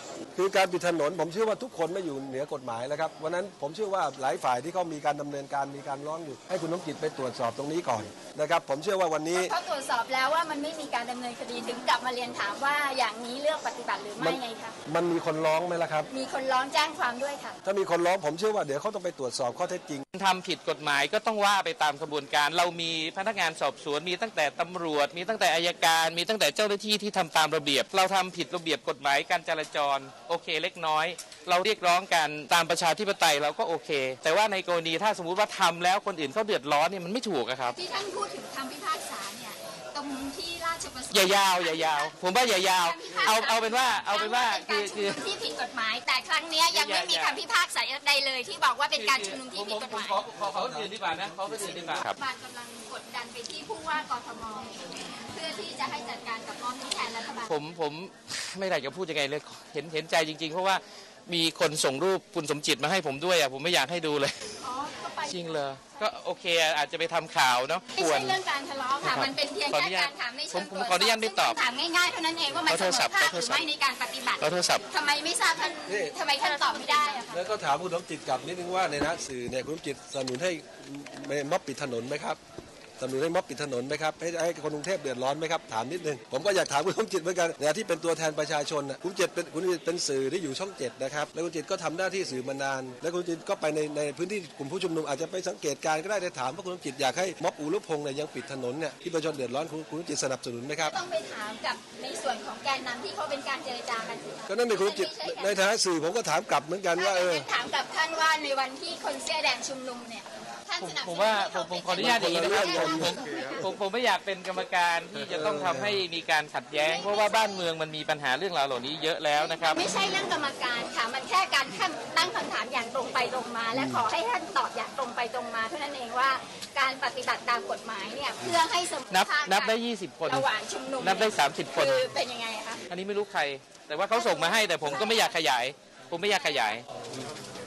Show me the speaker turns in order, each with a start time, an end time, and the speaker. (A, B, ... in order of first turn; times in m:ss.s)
0:00.4-0:09.5 A
0:09.3-0:14.8 B
0:14.2-0:16.1 A
0:16.1-0:17.6 B
0:17.6-0:20.0 A
0:20.1-0:37.8 C
0:37.7-0:50.2 B
0:41.1-0:45.2 C
0:46.7-0:47.4 C
0:48.9-0:52.2 C
0:50.5-0:52.0 A
0:52.0-0:57.6 B
0:57.4-1:04.3 C
1:04.6-1:05.5 B
1:05.3-1:08.4 C
1:07.9-1:17.4 B
1:09.0-1:11.6 C
1:12.7-1:13.6 C
1:14.4-1:14.8 C
1:15.9-1:16.1 A
1:17.3-1:22.4 A
1:23.0-1:40.9 A
1:40.9-1:45.6 B
1:44.5-1:47.5 A
1:46.9-1:53.7 B
1:50.8-1:59.8 C
1:51.9-1:53.4 A
1:55.2-1:56.0 A
1:56.7-1:57.7 B
1:59.3-2:12.8 B
2:09.1-2:10.5 C
2:11.0-2:12.0 C
2:12.9-2:16.8 C
2:14.1-2:15.3 B
2:16.3-2:16.7 B